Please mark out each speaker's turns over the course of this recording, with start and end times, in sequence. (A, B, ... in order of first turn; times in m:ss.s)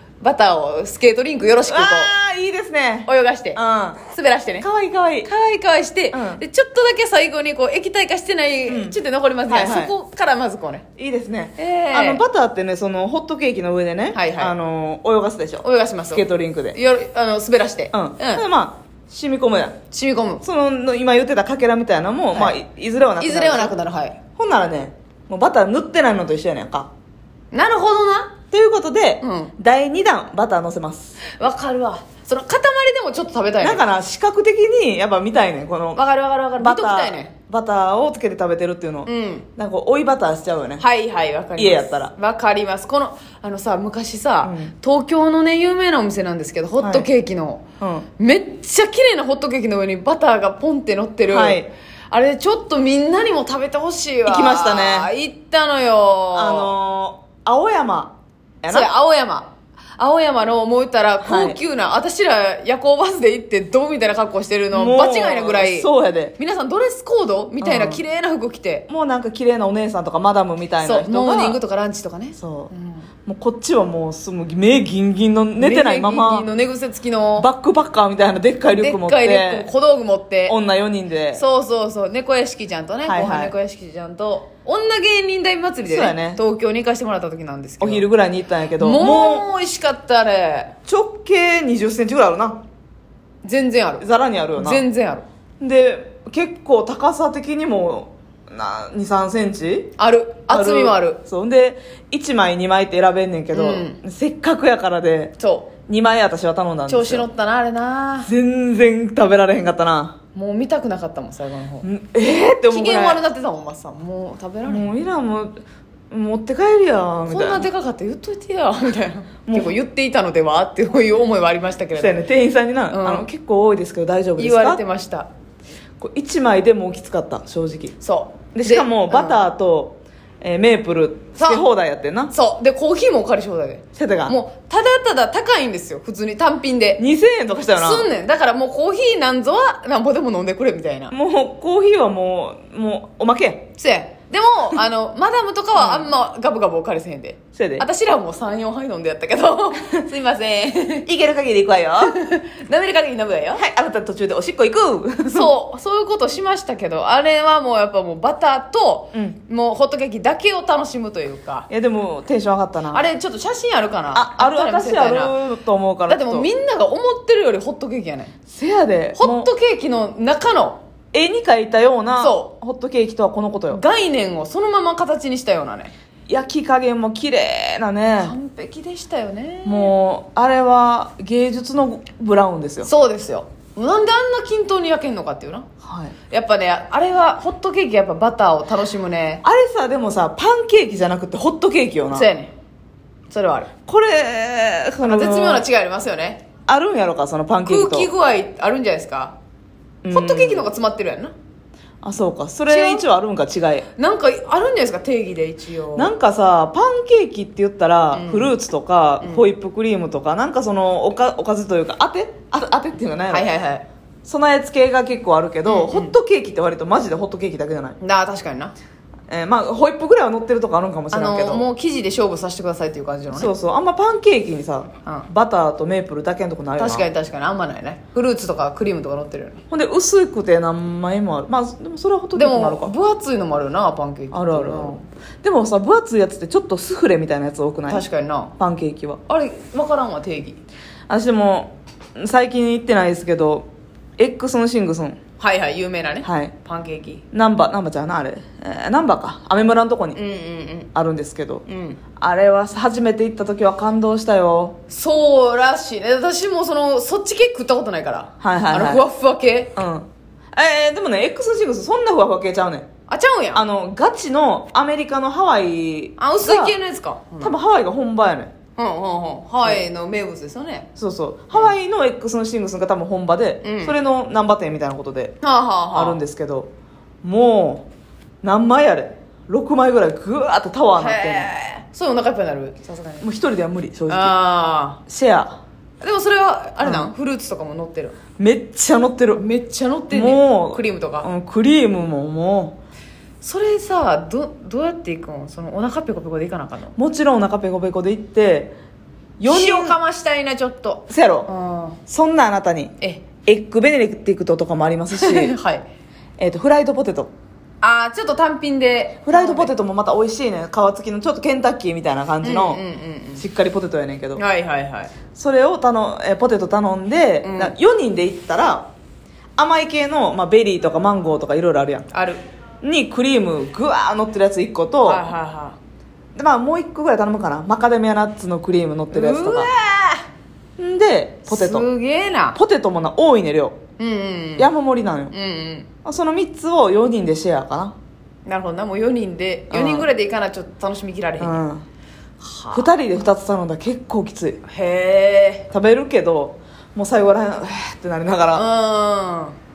0:00.2-0:02.1 A
0:01.7-0:04.0 B
0:03.0-0:04.7 A
0:04.6-0:05.3 B
0:05.2-0:10.8 A
0:06.1-0:06.4 B
0:08.7-0:09.9 B
0:11.0-0:16.8 B
0:11.6-0:12.2 A
0:14.1-0:14.5 A
0:15.6-0:18.4 A
0:17.9-0:19.8 B
0:19.9-0:20.4 A
0:20.4-0:23.8 B
0:23.2-0:24.2 A
0:24.4-0:26.9 B
0:27.5-0:28.3 A
0:28.5-0:31.2 B
0:29.2-0:29.5 A
0:31.2-0:33.8 A
0:33.6-0:36.0 B
0:35.9-0:37.3 A
0:36.6-0:40.8 B
0:39.0-0:39.5 A
0:40.8-0:47.6 A
0:41.6-0:42.1 B
0:44.4-0:44.7 B
0:46.8-0:47.1 B
0:47.8-0:48.1 B
0:48.2-0:56.7 A
0:51.3-0:51.7 B
0:54.2-0:55.1 B
0:56.3-0:58.9 B
0:58.7-1:08.8 A
1:01.2-1:01.6 B
1:04.7-1:06.3 B
1:07.6-1:08.0 B
1:08.9-1:11.6 B
1:10.8-1:13.1 A
1:12.4-1:12.7 B
1:13.2-1:16.5 B
1:15.6-1:17.5 A
1:17.4-1:19.7 B
1:18.7-1:20.6 A
1:20.5-1:21.4 B
1:21.3-1:28.1 A
1:23.0-1:23.5 B
1:25.9-1:26.4 B
1:27.8-1:29.5 B
1:28.8-1:30.7 A
1:30.9-1:32.6 B
1:33.4-1:35.2 A
1:34.0-1:34.8 B
1:35.6-1:39.9 B
1:40.0-1:41.2 A
1:40.5-1:45.3 B
1:43.5-1:44.0 A
1:45.4-1:45.7 A
1:45.9-1:47.3 B
1:46.9-1:48.3 A
1:48.2-1:50.2 B
1:50.3-1:51.9 A
1:51.8-1:53.2 B
1:52.7-1:54.9 A
1:54.6-1:55.5 B
1:56.1-1:57.7 B
1:57.3-2:02.1 A
1:59.5-1:59.7 B
2:01.9-2:04.8 B
2:02.9-2:03.3 A
2:04.4-2:05.3 A
2:06.0-2:08.0 B
2:08.0-2:09.4 A
2:08.5-2:12.3 B
2:11.4-2:11.6 A
2:12.3-2:17.0 A
2:14.0-2:14.4 B
2:17.0-2:18.1 B
2:17.7-2:21.1 A
2:21.1-2:23.7 B
2:23.8-2:31.1 A
2:25.7-2:26.1 B
2:27.5-2:27.8 B
2:31.0-2:32.2 B
2:32.0-2:33.6 A
2:33.6-2:35.5 B
2:35.2-2:41.7 A
2:39.1-2:39.4 B
2:41.7-2:43.1 B
2:42.9-2:45.3 A
2:44.1-2:46.5 B
2:46.1-2:48.3 A
2:48.5-2:49.5 B
2:49.2-2:50.8 A
2:51.1-2:53.8 B
2:52.2-2:52.5 A
2:53.7-2:55.9 A
2:56.3-2:58.3 B
2:58.2-2:59.9 A
2:59.6-3:02.9 B
3:02.8-3:05.7 A
3:05.8-3:06.1 B
3:06.3-3:09.4 A
3:09.4-3:12.3 B
3:12.1-3:12.5 A
3:13.3-3:13.7 A
3:13.9-3:15.7 B
3:15.0-3:16.4 A
3:16.7-3:18.1 B
3:17.6-3:19.4 A
3:20.0-3:20.7 B
3:20.1-3:21.3 A
3:22.0-3:23.9 B
3:22.7-3:23.0 A
3:24.0-3:26.1 A
3:26.0-3:33.5 B
3:28.1-3:28.5 A
3:33.3-3:33.8 A
3:34.2-3:38.0 B
3:35.6-3:36.1 A
3:38.0-3:38.7 A
3:39.3-3:41.6 B
3:41.1-3:43.5 A
3:43.3-3:47.1 B
3:46.8-3:49.6 A
3:49.7-3:52.9 B
3:52.4-3:55.0 A
3:54.3-3:58.0 B
3:57.9-3:58.5 A
3:58.6-3:59.2 B
3:59.3-4:00.6 A
4:01.1-4:05.2 B
4:05.4-4:07.2 A
4:06.2-4:06.5 B
4:07.3-4:10.2 B
4:10.1-4:10.9 A
4:10.9-4:11.6 B
4:11.7-4:12.0 A
4:12.2-4:14.8 B
4:14.9-4:19.7 A
4:18.4-4:19.0 B
4:19.7-4:22.9 B
4:23.1-4:23.6 A
4:23.5-4:26.8 B
4:26.2-4:27.6 A
4:27.4-4:28.5 B
4:28.8-4:30.9 A
4:31.0-4:35.4 B
4:33.6-4:34.0 A
4:35.4-4:36.2 A
4:35.9-4:36.7 B
4:37.2-4:37.9 B
4:38.4-4:41.5 B
4:40.9-4:43.3 A
4:43.2-4:44.4 B
4:44.1-4:45.0 A
4:45.0-4:45.6 B
4:46.0-4:48.2 A
4:46.8-4:47.1 B
4:48.4-4:49.4 B
4:49.4-4:51.3 A
4:50.1-4:52.8 B
4:53.4-4:56.9 A
4:57.0-4:58.7 B
4:59.4-5:00.0 B
4:59.4-5:02.0 A
5:01.1-5:01.5 B
5:02.1-5:02.9 B
5:03.0-5:03.3 A
5:03.4-5:05.5 B
5:05.1-5:05.8 A
5:06.4-5:07.3 B
5:07.8-5:09.7 A
5:09.2-5:12.8 B
5:12.4-5:13.4 A
5:13.4-5:14.4 B
5:14.4-5:15.1 A
5:15.3-5:18.9 B
5:17.4-5:17.7 A
5:19.6-5:22.1 B
5:22.1-5:22.4 A
5:22.8-5:25.2 B
5:25.0-5:25.8 A
5:26.4-5:29.7 B
5:29.1-5:30.2 A
5:30.8-5:31.9 B
5:31.5-5:32.6 A
5:32.5-5:33.8 B
5:34.0-5:34.7 A
5:34.6-5:35.3 B
5:35.3-5:35.9 A
5:36.0-5:37.9 B
5:38.4-5:41.6 A
5:39.7-5:40.1 B
5:41.4-5:41.8 B
5:42.4-5:42.9 A
5:42.7-5:44.6 B
5:44.6-5:45.7 A
5:45.7-5:48.7 B
5:48.5-5:49.6 A